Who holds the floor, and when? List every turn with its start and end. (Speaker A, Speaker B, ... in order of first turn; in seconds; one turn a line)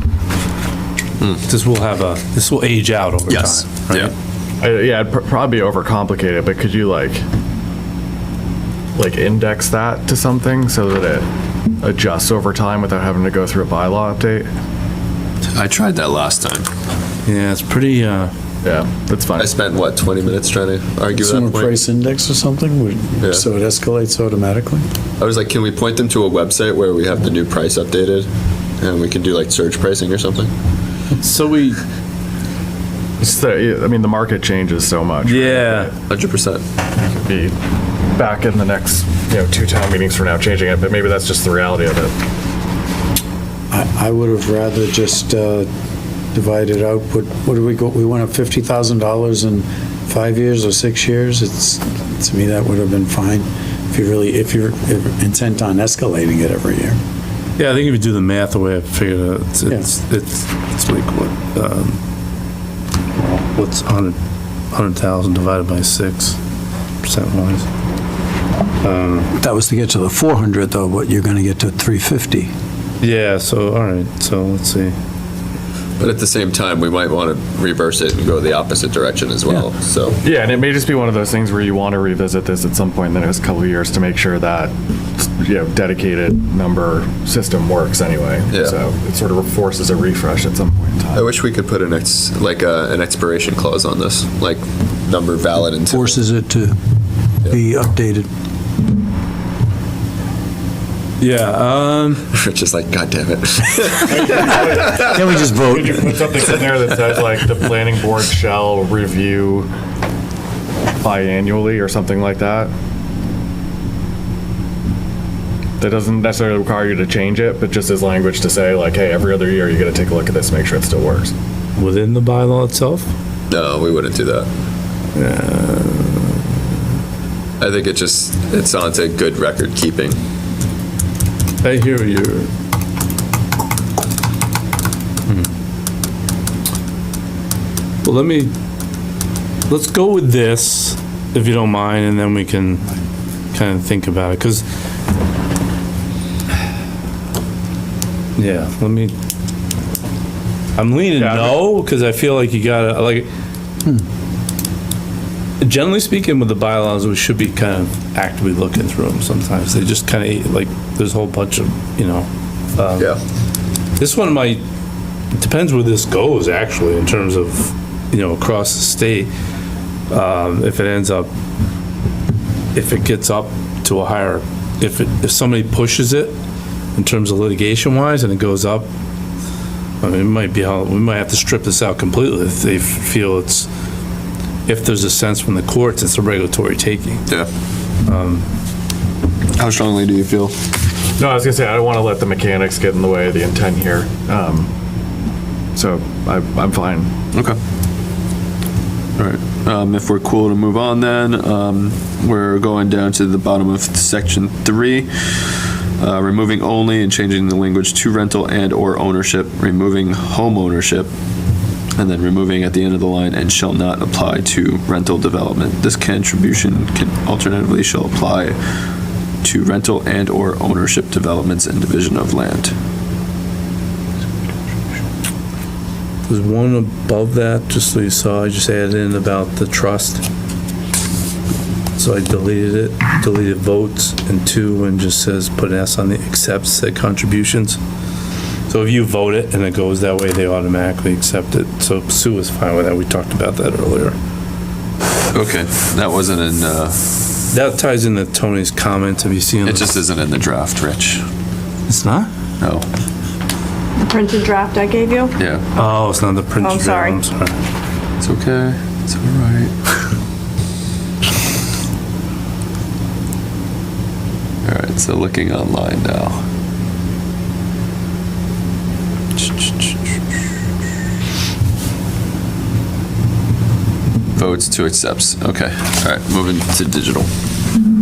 Speaker A: 1.5-4.1
Speaker B: 3.3-4.1
Speaker C: 4.6-7.2
Speaker C: 8.9-11.2
Speaker C: 11.8-14.5
Speaker B: 15.5-16.7
Speaker A: 17.2-18.3
Speaker C: 18.6-19.5
Speaker B: 19.4-21.7
Speaker D: 21.1-24.8
Speaker B: 23.2-23.4
Speaker B: 25.2-28.3
Speaker B: 28.8-30.5
Speaker A: 31.2-31.8
Speaker C: 33.2-35.9
Speaker A: 35.2-35.9
Speaker B: 36.1-36.6
Speaker C: 37.0-37.5
Speaker C: 38.1-42.1
Speaker D: 43.7-45.7
Speaker D: 46.3-57.0
Speaker A: 57.6-62.0
Speaker A: 63.2-64.2
Speaker A: 64.7-66.4
Speaker A: 67.0-67.7
Speaker A: 68.8-69.3
Speaker D: 69.3-72.5
Speaker A: 73.0-75.0
Speaker B: 76.0-80.2
Speaker C: 80.2-91.3
Speaker B: 91.1-96.1
Speaker D: 95.9-96.8
Speaker D: 97.4-98.3
Speaker A: 101.2-102.3
Speaker B: 102.3-105.0
Speaker C: 104.0-105.1
Speaker D: 104.5-106.3
Speaker C: 105.7-109.7
Speaker C: 111.0-112.7
Speaker C: 115.8-121.3
Speaker A: 121.8-123.1
Speaker B: 123.5-124.5
Speaker A: 125.2-126.4
Speaker B: 127.6-130.2
Speaker A: 131.6-132.5
Speaker A: 138.0-138.5
Speaker A: 139.7-142.8
Speaker A: 143.5-144.6
Speaker A: 148.3-149.1
Speaker A: 150.8-153.3
Speaker C: 151.2-151.5
Speaker A: 155.6-163.1
Speaker A: 164.0-164.6
Speaker A: 165.3-169.3
Speaker A: 170.1-171.3
Speaker A: 172.7-176.3
Speaker A: 176.9-178.9
Speaker A: 180.0-183.7
Speaker A: 184.7-187.2
Speaker A: 188.0-188.4
Speaker B: 189.5-190.6
Speaker C: 191.2-194.7
Speaker C: 195.8-197.1
Speaker B: 199.2-211.1
Speaker B: 212.0-218.6
Speaker B: 219.4-222.7
Speaker A: 226.3-230.2
Speaker A: 232.0-237.8
Speaker A: 238.7-244.2
Speaker B: 245.3-247.0
Speaker A: 247.5-249.9
Speaker B: 249.6-251.2
Speaker A: 251.9-252.3
Speaker B: 252.6-252.8
Speaker E: 254.0-255.3
Speaker B: 255.4-255.6
Speaker A: 255.8-257.6
Speaker E: 256.6-257.2
Speaker B: 258.2-259.7
Speaker B: 264.6-266.4
Speaker B: 269.4-269.9
Speaker B: 274.3-277.3